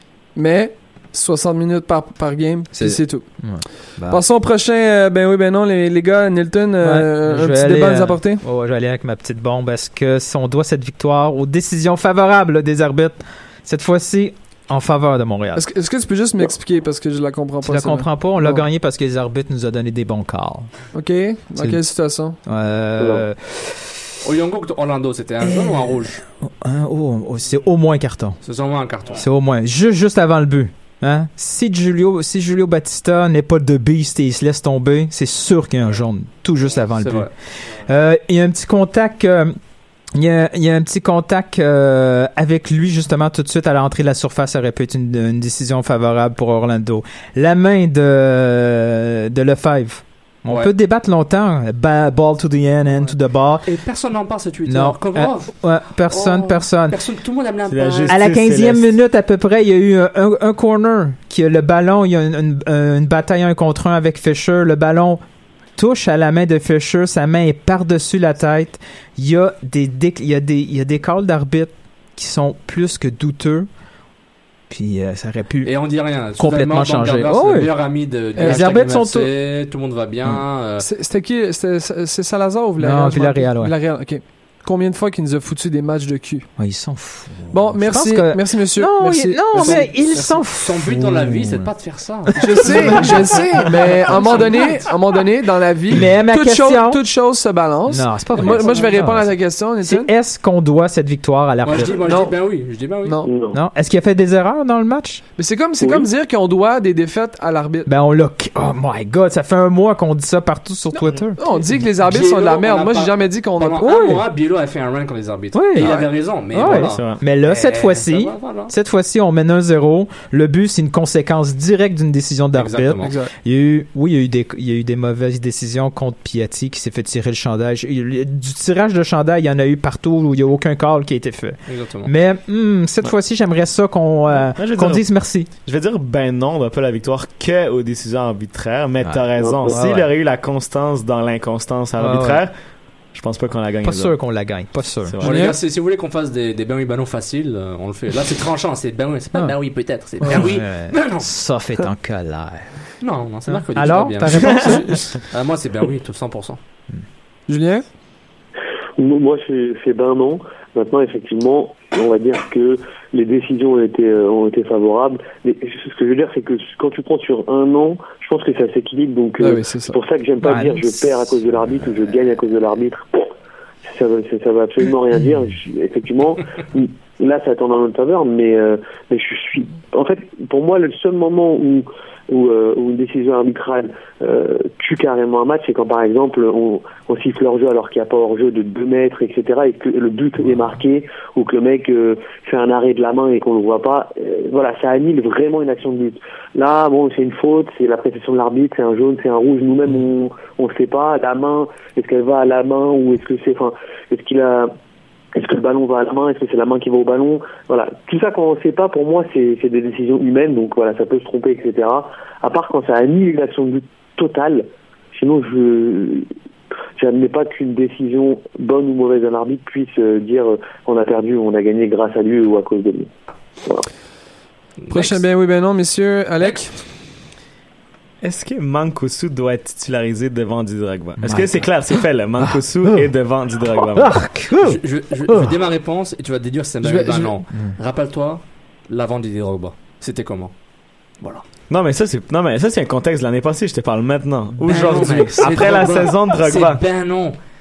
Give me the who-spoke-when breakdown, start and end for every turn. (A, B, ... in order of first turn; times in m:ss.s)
0:00.4-0:08.4 A
0:02.7-0:04.2 B
0:06.8-0:15.6 B
0:15.6-0:18.6 A
0:17.6-0:20.7 B
0:20.9-0:22.4 A
0:22.4-0:24.0 B
0:23.0-0:23.2 C
0:24.2-0:26.2 D
0:25.4-0:25.8 B
0:26.4-0:28.4 B
0:28.4-0:29.2 D
0:29.1-0:39.6 B
0:37.0-0:37.3 D
0:40.1-0:53.6 B
0:53.6-0:58.2 D
0:54.6-0:57.0 B
0:57.7-0:58.9 E
0:58.1-1:05.2 B
1:05.8-1:13.7 B
1:14.7-1:19.3 B
1:15.6-1:20.9 D
1:18.4-1:18.7 A
1:20.8-1:26.5 A
1:22.8-1:23.7 B
1:26.6-1:31.7 B
1:27.5-1:30.4 A
1:29.6-1:35.0 D
1:32.4-1:40.1 A
1:32.5-1:33.5 B
1:35.9-1:37.0 B
1:37.9-1:42.0 B
1:38.4-1:38.8 D
1:41.6-1:43.2 D
1:41.9-1:42.4 A
1:43.0-1:43.3 A
1:43.2-1:43.6 C
1:43.5-1:45.2 B
1:45.4-1:47.9 A
1:45.8-1:46.1 C
1:47.8-1:51.4 B
1:50.9-1:54.2 A
1:52.0-1:58.7 D
1:55.5-2:15.5 B
1:56.6-1:57.2 E
2:02.5-2:03.1 D
2:03.0-2:03.3 A
2:11.7-2:12.1 D
2:14.5-2:22.5 E
2:19.0-2:20.1 B
2:19.4-2:19.8 C
2:22.0-2:22.4 B
2:23.1-2:24.2 E
2:23.8-2:25.2 B
2:25.0-2:25.5 E
2:25.2-2:31.3 D
2:25.2-2:25.6 A
2:30.2-2:32.8 B
2:33.0-2:36.6 D
2:33.5-2:35.2 B
2:34.3-2:34.8 E
2:37.5-2:37.8 A
2:39.0-2:53.2 C
2:49.4-2:50.0 A
2:50.4-2:50.9 B
2:53.9-3:24.7 C
3:25.3-3:36.3 C
3:37.0-3:43.1 C
3:44.8-3:45.2 D
3:44.9-3:46.8 A
3:48.2-3:54.3 E
3:51.2-3:53.1 B
3:53.9-3:55.6 B
3:54.6-4:00.6 D
3:56.8-3:57.4 A
4:01.2-4:01.4 D
4:01.7-4:06.8 E
4:04.6-4:07.4 D
4:04.7-4:05.6 B